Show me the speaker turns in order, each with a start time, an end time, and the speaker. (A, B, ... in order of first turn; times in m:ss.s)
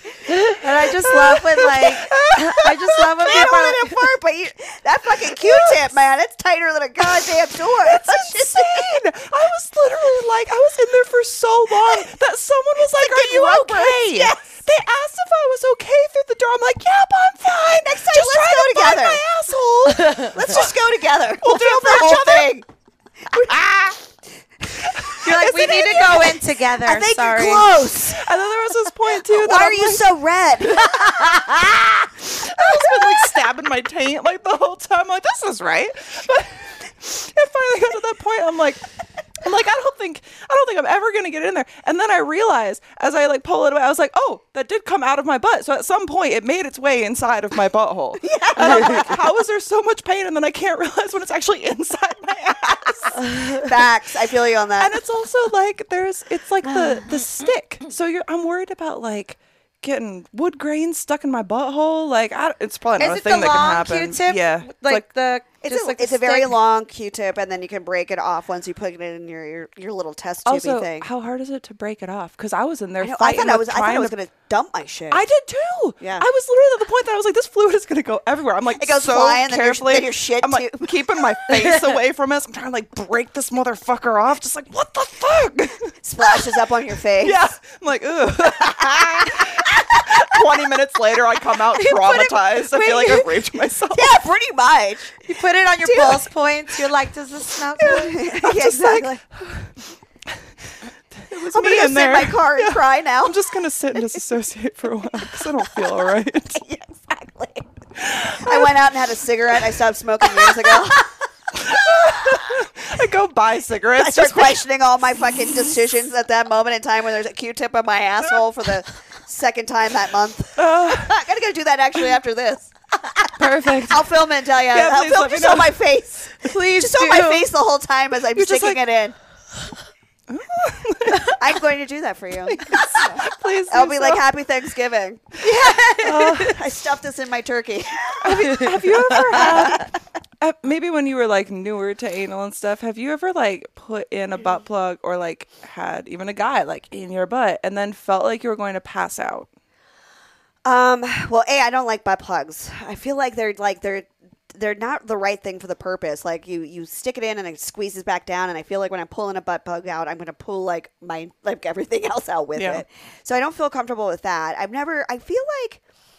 0:00.2-0:03.9 A
0:01.6-0:09.0 B
0:05.3-0:05.9 C
0:07.0-0:20.7 C
0:11.7-0:12.1 B
0:12.8-0:14.6 B
0:17.7-0:19.2 B
0:20.1-0:22.6 B
0:21.4-0:22.5 C
0:23.3-0:24.0 B
0:24.6-0:28.3 B
0:25.2-0:27.7 A
0:28.1-0:31.6 C
0:29.2-0:33.4 B
0:32.2-0:38.8 C
0:39.4-0:53.8 C
0:48.2-0:49.3 B
0:52.6-0:55.0 B
0:54.8-1:05.0 C
0:56.7-0:57.0 B
1:03.0-1:06.5 A
1:05.6-1:11.1 B
1:10.4-1:14.2 C
1:13.0-1:15.2 B
1:15.1-1:26.5 C
1:16.0-1:16.2 B
1:18.7-1:21.5 B
1:26.0-1:27.4 B
1:27.2-1:34.2 C
1:28.6-1:30.3 B
1:32.0-1:32.3 B
1:32.0-1:33.2 A
1:32.8-1:33.1 B
1:33.9-1:35.2 B
1:35.2-1:38.2 A
1:35.8-1:36.3 B
1:37.8-1:39.2 B
1:38.2-1:39.7 C
1:41.3-1:44.2 B
1:41.3-1:46.6 C
1:45.2-1:47.7 B
1:48.0-1:48.8 C
1:48.4-1:52.7 B
1:50.4-1:50.8 C
1:51.5-1:54.6 C
1:54.0-2:09.2 B
2:00.6-2:01.2 C
2:03.3-2:05.8 C
2:06.4-2:07.5 C
2:08.3-2:08.8 C
2:10.3-2:11.4 C
2:11.2-2:15.8 B
2:12.5-2:14.2 C
2:15.4-2:16.5 A
2:16.0-2:16.6 C
2:16.4-2:19.9 B
2:18.2-2:19.9 C
2:18.5-2:19.7 A
2:20.4-2:29.5 C
2:30.6-2:45.8 B
2:42.5-2:42.8 C